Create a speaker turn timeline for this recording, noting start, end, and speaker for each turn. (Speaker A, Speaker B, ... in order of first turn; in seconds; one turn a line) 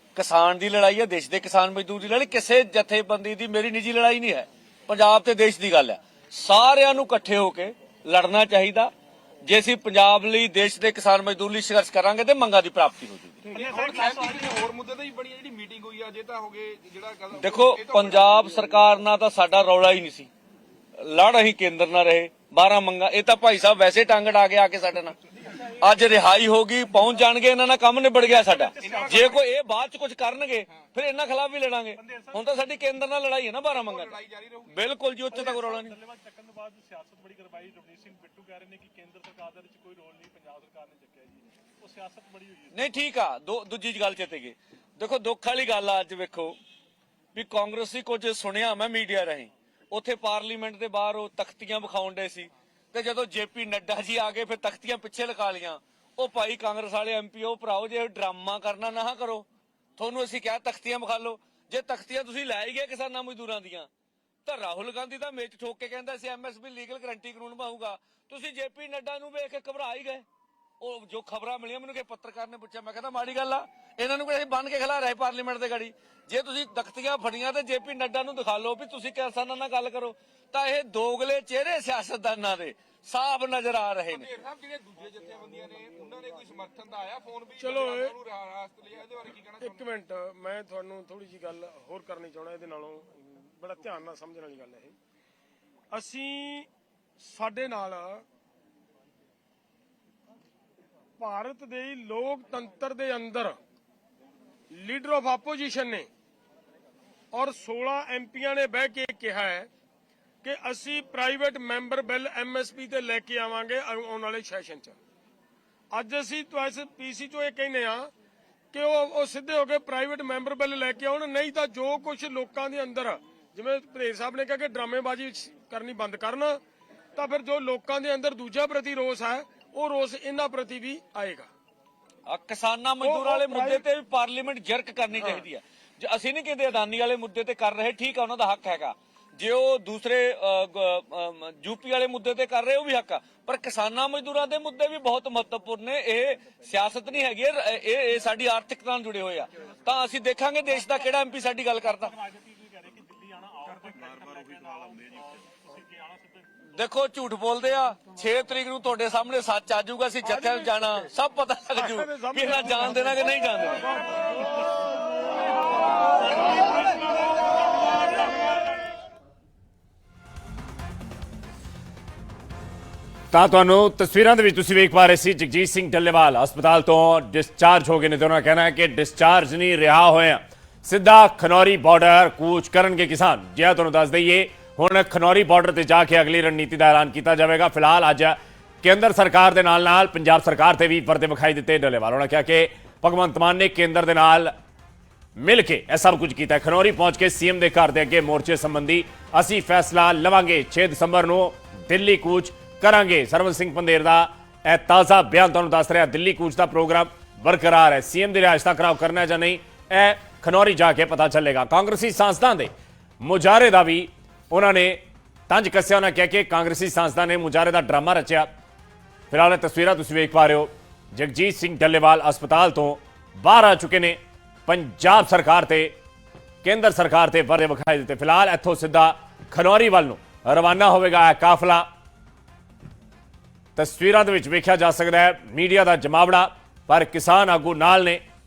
Speaker A: 0.1-8.9
Speaker A: 9.4-13.4
Speaker B: 13.5-18.8
Speaker C: 13.5-14.6
Speaker A: 17.3-20.3
Speaker A: 21.0-25.2
Speaker A: 25.7-36.0
Speaker C: 28.2-29.4
Speaker B: 28.8-29.4
Speaker C: 32.0-32.5
Speaker B: 33.7-34.8
Speaker C: 35.3-43.0
Speaker A: 42.7-46.5
Speaker A: 47.3-59.5
Speaker A: 60.0-63.9
Speaker A: 64.4-70.2
Speaker A: 70.8-84.3
Speaker B: 84.1-89.9
Speaker D: 87.6-88.2
Speaker D: 89.6-94.9
Speaker D: 95.9-96.7
Speaker D: 97.2-98.2
Speaker D: 101.2-103.6
Speaker D: 104.7-106.1
Speaker D: 107.3-109.7
Speaker D: 110.4-115.0
Speaker D: 115.9-118.1
Speaker D: 118.7-126.6
Speaker D: 127.1-131.5
Speaker A: 132.2-152.1
Speaker D: 133.0-133.8
Speaker D: 135.2-135.4
Speaker C: 150.7-151.1
Speaker C: 151.7-156.5
Speaker A: 156.7-163.8
Speaker D: 160.2-161.1
Speaker D: 161.7-164.2
Speaker C: 166.3-167.0
Speaker E: 173.3-194.5
Speaker E: 195.4-218.5
Speaker E: 219.3-225.9
Speaker E: 226.6-231.8
Speaker E: 233.8-238.2